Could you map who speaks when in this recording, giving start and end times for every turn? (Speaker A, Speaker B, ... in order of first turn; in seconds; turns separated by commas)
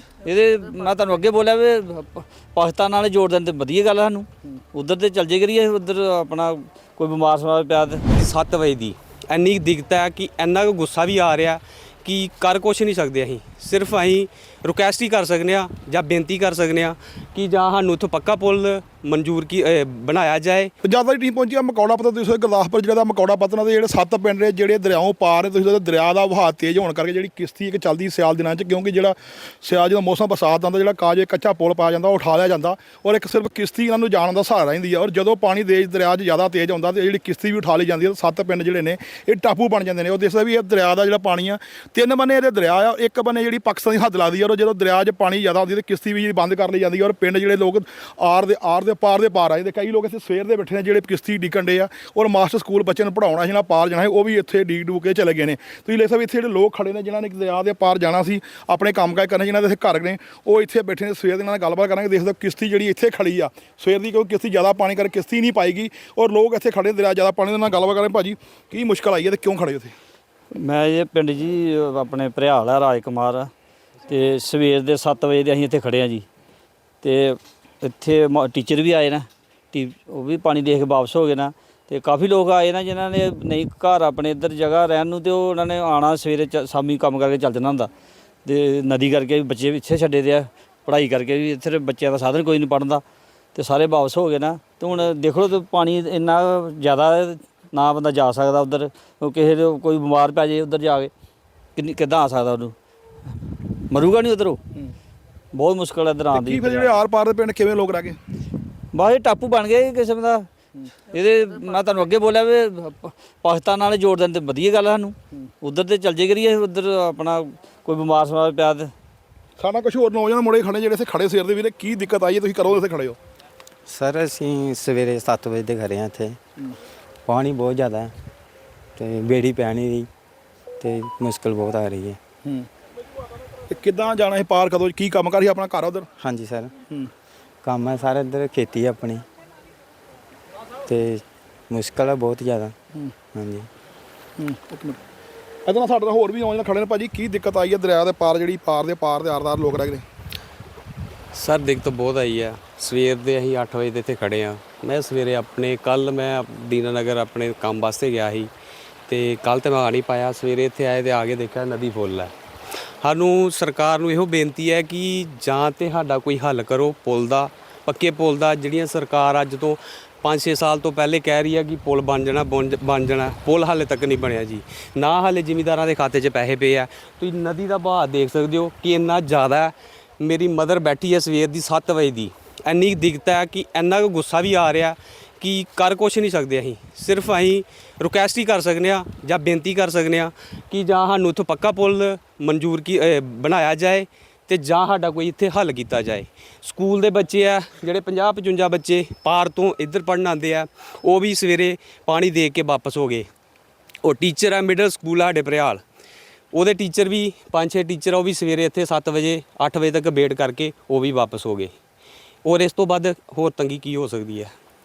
Speaker A: 0.2-8.0, Speaker B: 8.1-20.7, Speaker C: 20.8-69.9, Speaker A: 70.5-73.5, Speaker A: 74.0-76.2, Speaker A: 77.0-87.9, Speaker A: 88.4-93.0, Speaker A: 93.5-101.1, Speaker A: 101.8-102.7, Speaker A: 103.5-104.6, Speaker A: 105.5-107.0, Speaker C: 106.3-108.2, Speaker A: 108.9-110.5, Speaker A: 111.1-118.9, Speaker C: 119.6-123.2, Speaker D: 123.8-126.4, Speaker D: 127.2-128.1, Speaker D: 128.9-130.1, Speaker D: 130.8-132.2, Speaker C: 133.7-136.1, Speaker D: 136.2-136.7, Speaker D: 137.6-139.2, Speaker D: 140.8-142.7, Speaker D: 143.3-143.7, Speaker C: 144.4-145.0, Speaker C: 145.6-150.0, Speaker B: 151.3-158.5, Speaker B: 159.1-162.3, Speaker B: 163.0-203.3, Speaker B: 204.0-205.8, Speaker B: 206.5-211.7, Speaker B: 212.4-214.5